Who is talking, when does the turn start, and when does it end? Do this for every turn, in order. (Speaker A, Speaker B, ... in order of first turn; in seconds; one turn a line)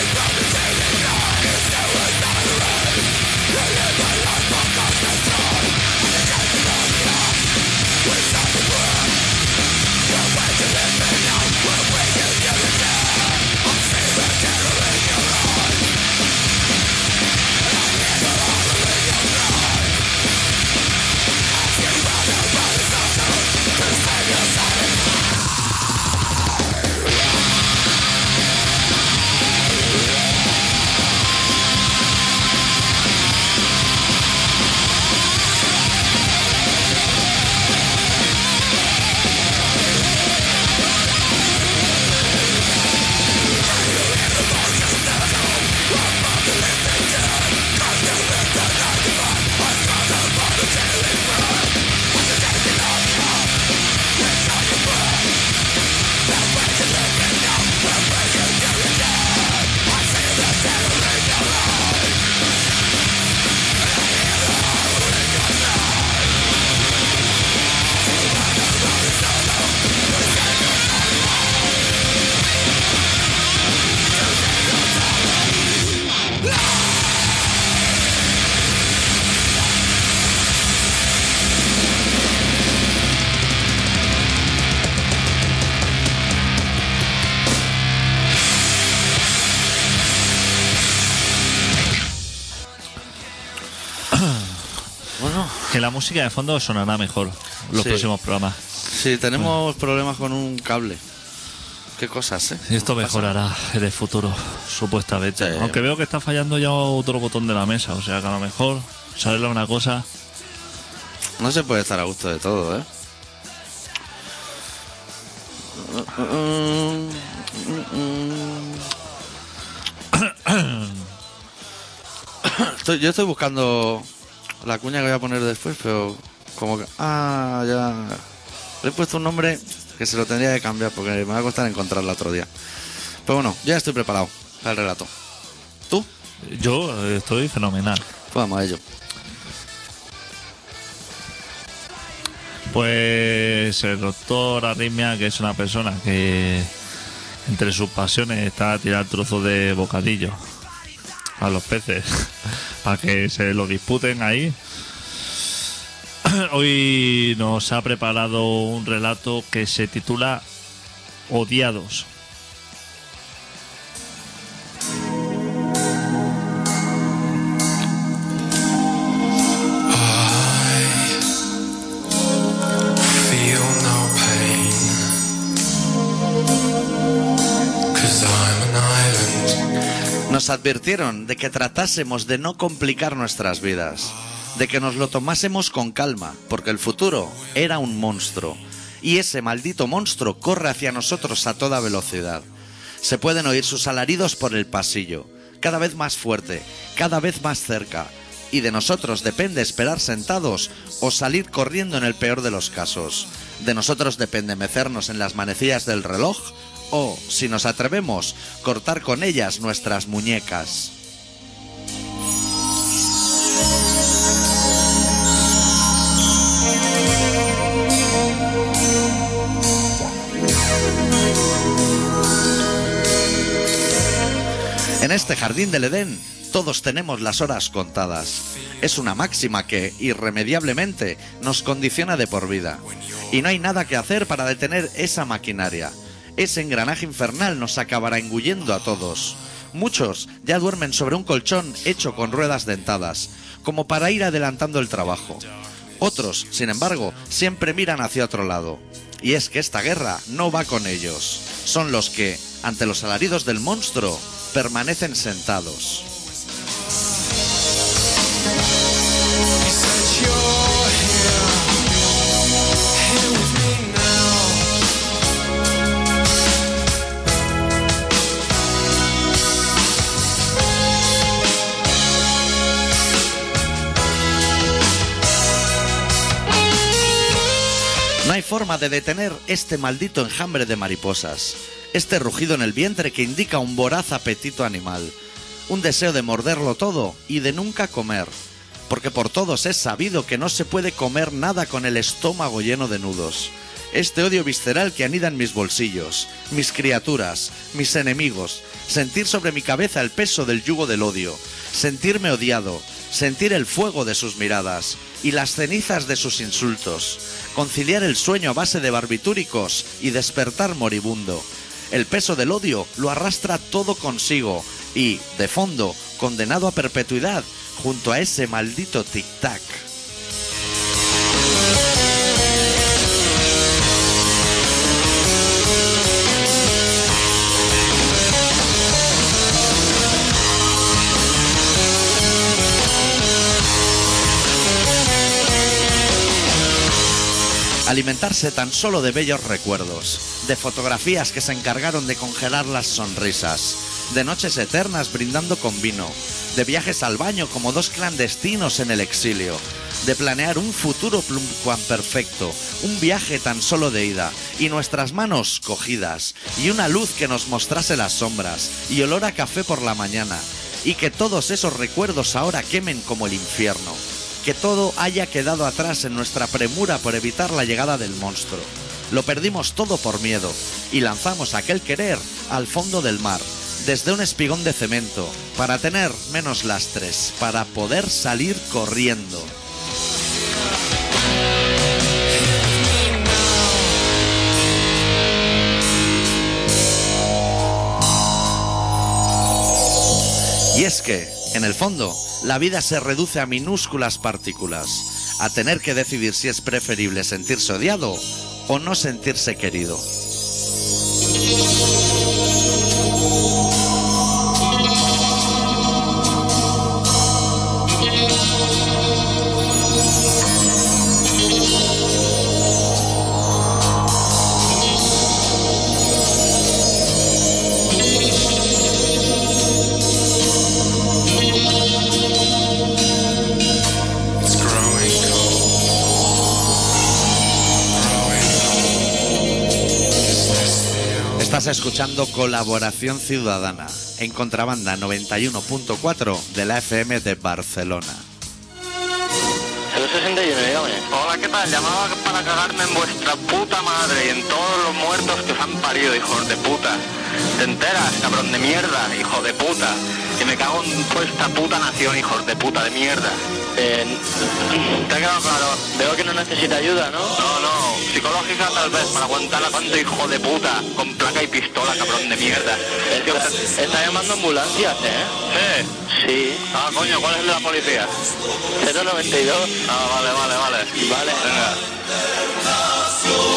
Speaker A: 94.2-94.5
Speaker B: 95.2-95.7
Speaker A: 95.7-98.6
Speaker B: 97.7-98.1
Speaker B: 98.9-101.0
Speaker B: 102.0-103.3
Speaker A: 102.7-110.1
Speaker B: 105.4-105.8
Speaker B: 111.4-112.9
Speaker B: 115.8-118.9
Speaker A: 120.1-121.1
Speaker B: 122.4-124.1
Speaker B: 124.6-128.2
Speaker B: 128.8-132.5
Speaker B: 133.3-135.1
Speaker A: 136.4-138.1
Speaker B: 138.3-138.8
Speaker A: 142.7-146.7
Speaker A: 147.5-150.4
Speaker A: 151.4-154.6
Speaker A: 156.2-160.4
Speaker A: 161.3-162.1
Speaker C: 169.9-171.2
Speaker C: 173.0-175.1
Speaker C: 177.9-179.6
Speaker B: 180.3-192.5
Speaker B: 193.0-210.9
Speaker B: 225.0-245.4
Speaker B: 246.0-256.1
Speaker C: 259.6-262.4
Speaker C: 262.9-264.8
Speaker B: 278.2-285.2
Speaker B: 285.7-288.3
Speaker B: 288.9-319.9
Speaker B: 337.9-379.5
Speaker B: 390.7-400.1
Speaker C: 424.4-425.8
Speaker C: 427.9-429.1
Speaker C: 430.5-431.4
Speaker B: 431.4-438.2
Speaker D: 439.9-441.1
Speaker E: 441.1-447.0
Speaker E: 447.6-453.4
Speaker D: 453.8-454.2
Speaker E: 455.0-455.9
Speaker D: 455.8-457.4
Speaker E: 457.4-463.7
Speaker D: 463.1-465.4
Speaker E: 465.5-465.9
Speaker D: 466.1-466.7
Speaker E: 466.7-468.1
Speaker D: 468.8-469.8
Speaker E: 469.8-471.8
Speaker D: 471.0-471.5